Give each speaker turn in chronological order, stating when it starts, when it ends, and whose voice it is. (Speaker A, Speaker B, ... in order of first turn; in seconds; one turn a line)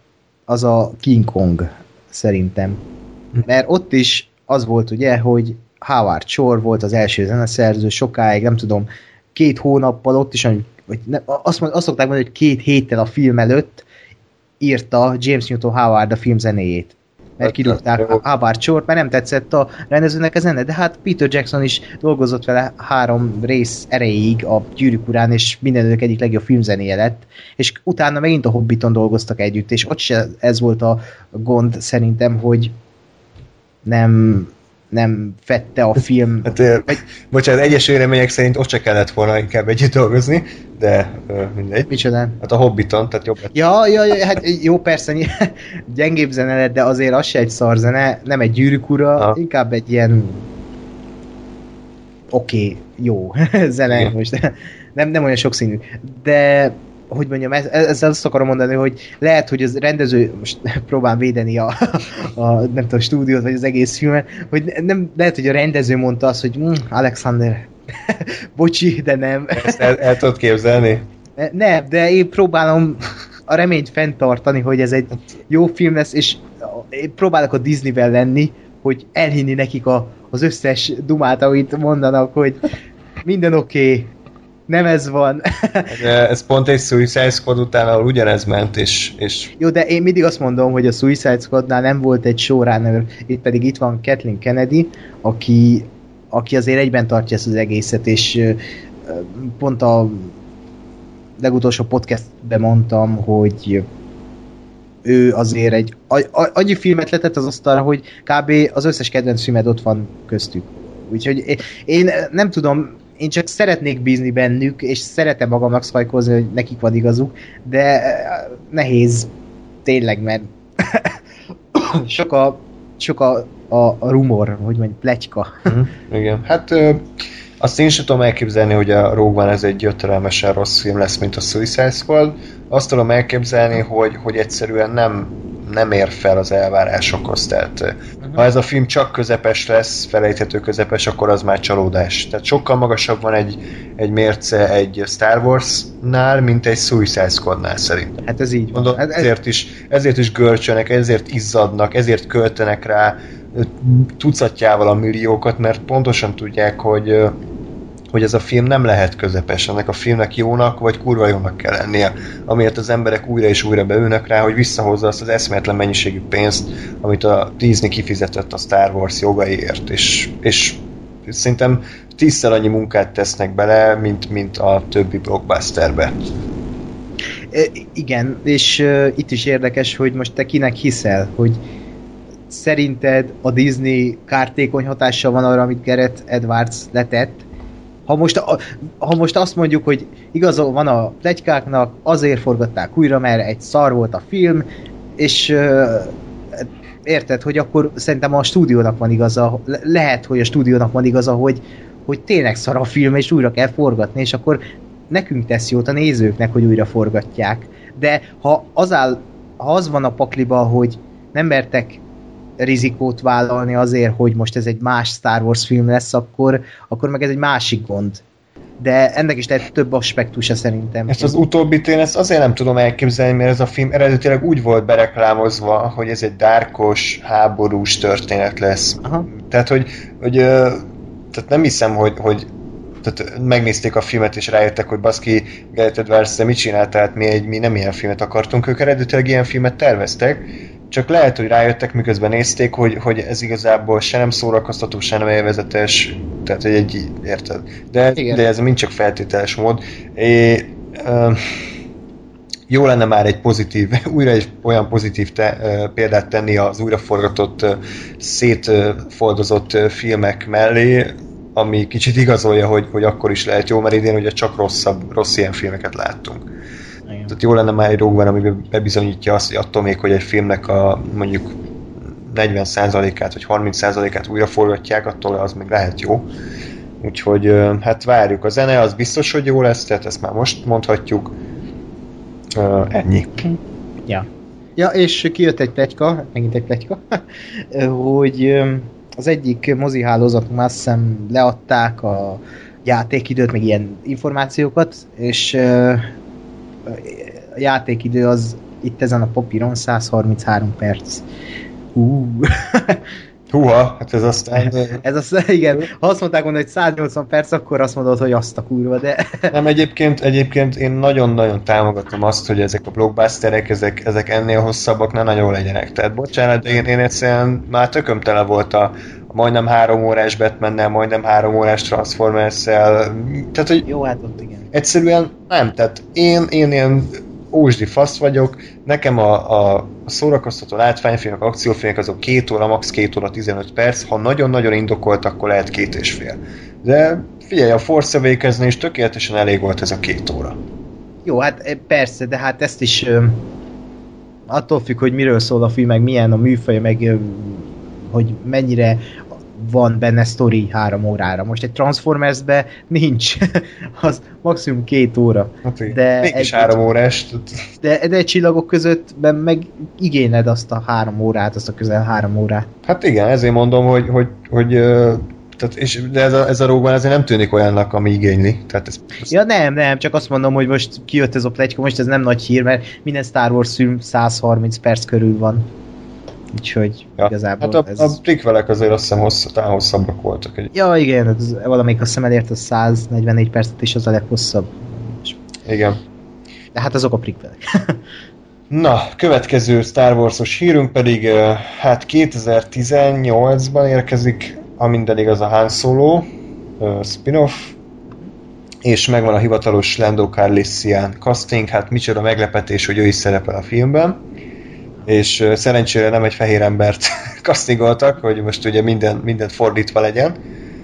Speaker A: 0.5-2.8
Speaker A: 3.4-13.8
Speaker A: 14.6-32.7
Speaker B: 17.4-18.2
Speaker A: 33.8-37.0
Speaker B: 36.4-43.5
Speaker A: 41.9-42.4
Speaker A: 43.5-50.5
Speaker A: 52.3-70.0
Speaker B: 69.5-71.0
Speaker A: 71.4-82.7
Speaker A: 83.2-84.1
Speaker A: 84.7-85.9
Speaker B: 85.9-89.5
Speaker A: 89.6-100.3
Speaker A: 101.4-103.8
Speaker A: 105.0-119.3
Speaker A: 119.8-121.2
Speaker A: 121.7-125.7
Speaker B: 125.7-148.2
Speaker A: 148.2-149.3
Speaker B: 148.7-157.4
Speaker B: 158.1-176.1
Speaker A: 177.5-181.6
Speaker A: 182.5-187.4
Speaker A: 188.1-194.6
Speaker A: 195.2-212.0
Speaker A: 212.6-218.2
Speaker A: 218.8-221.3
Speaker B: 221.1-232.5
Speaker B: 233.0-251.6
Speaker B: 252.7-266.4
Speaker B: 267.3-271.5
Speaker B: 272.1-276.3
Speaker B: 277.0-281.3
Speaker B: 282.5-283.5
Speaker A: 284.1-296.1
Speaker A: 296.9-301.2
Speaker A: 301.9-303.0
Speaker B: 303.5-305.0
Speaker A: 304.6-309.5
Speaker B: 309.5-323.9
Speaker A: 323.9-324.7
Speaker B: 324.7-340.6
Speaker A: 341.2-343.4
Speaker A: 344.5-349.0
Speaker A: 349.5-356.8
Speaker B: 355.6-357.6
Speaker A: 357.8-362.7
Speaker B: 362.9-369.3
Speaker A: 369.3-375.6
Speaker A: 376.5-378.2
Speaker B: 377.2-380.7
Speaker A: 380.7-385.4
Speaker B: 385.6-386.0
Speaker A: 386.7-388.0
Speaker B: 388.7-396.3
Speaker B: 396.8-397.8
Speaker B: 398.8-404.2
Speaker B: 405.1-410.4